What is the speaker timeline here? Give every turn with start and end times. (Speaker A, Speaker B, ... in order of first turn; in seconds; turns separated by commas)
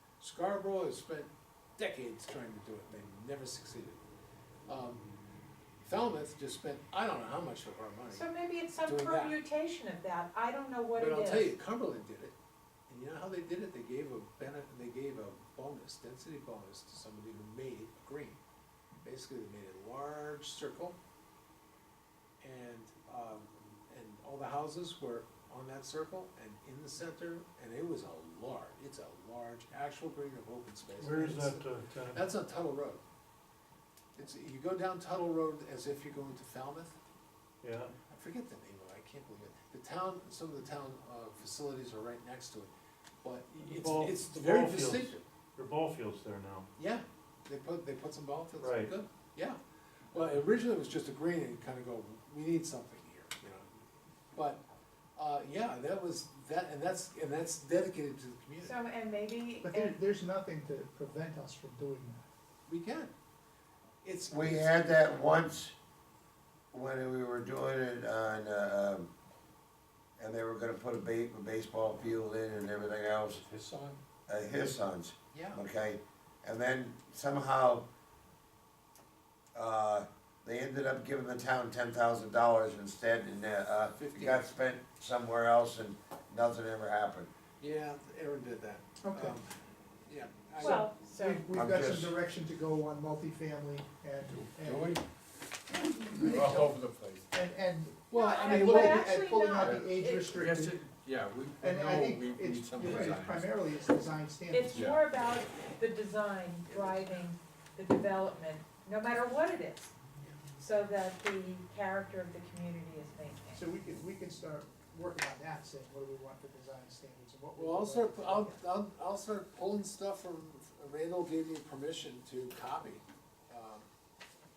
Speaker A: 0.2-4.0, Speaker A: 4.7-5.0, Speaker A: 5.8-8.2, Speaker B: 8.1-11.6, Speaker A: 8.8-9.4, Speaker A: 11.0-12.3, Speaker A: 12.9-18.4, Speaker A: 19.0-21.0, Speaker A: 22.4-33.0, Speaker C: 31.0-32.3, Speaker A: 34.2-37.0, Speaker C: 37.6-37.9, Speaker A: 38.1-42.7, Speaker A: 43.2-45.2, Speaker C: 43.6-46.7, Speaker A: 46.8-49.6, Speaker C: 48.6-48.9, Speaker A: 50.1-53.7, Speaker A: 54.3-54.6, Speaker A: 55.2-58.8, Speaker B: 58.6-60.0, Speaker D: 59.6-62.3, Speaker A: 62.7-63.1, Speaker A: 64.0-64.8, Speaker E: 64.3-65.8, Speaker E: 66.7-69.1, Speaker E: 70.2-73.4, Speaker F: 73.3-74.0, Speaker E: 74.3-77.9, Speaker A: 75.3-75.6, Speaker E: 79.5-87.3, Speaker A: 83.9-84.5, Speaker A: 87.6-89.5, Speaker D: 89.0-89.4, Speaker A: 90.1-90.9, Speaker B: 90.6-91.5, Speaker D: 90.6-95.0, Speaker E: 91.5-92.2, Speaker F: 94.3-95.1, Speaker F: 95.8-97.3, Speaker D: 96.1-96.8, Speaker D: 97.3-100.8, Speaker A: 98.1-99.2, Speaker B: 98.1-100.3, Speaker F: 99.6-103.6, Speaker D: 101.6-104.9, Speaker B: 104.5-109.9, Speaker F: 104.8-105.0, Speaker A: 106.7-107.0, Speaker B: 110.6-113.6, Speaker D: 113.5-118.6, Speaker A: 117.6-123.9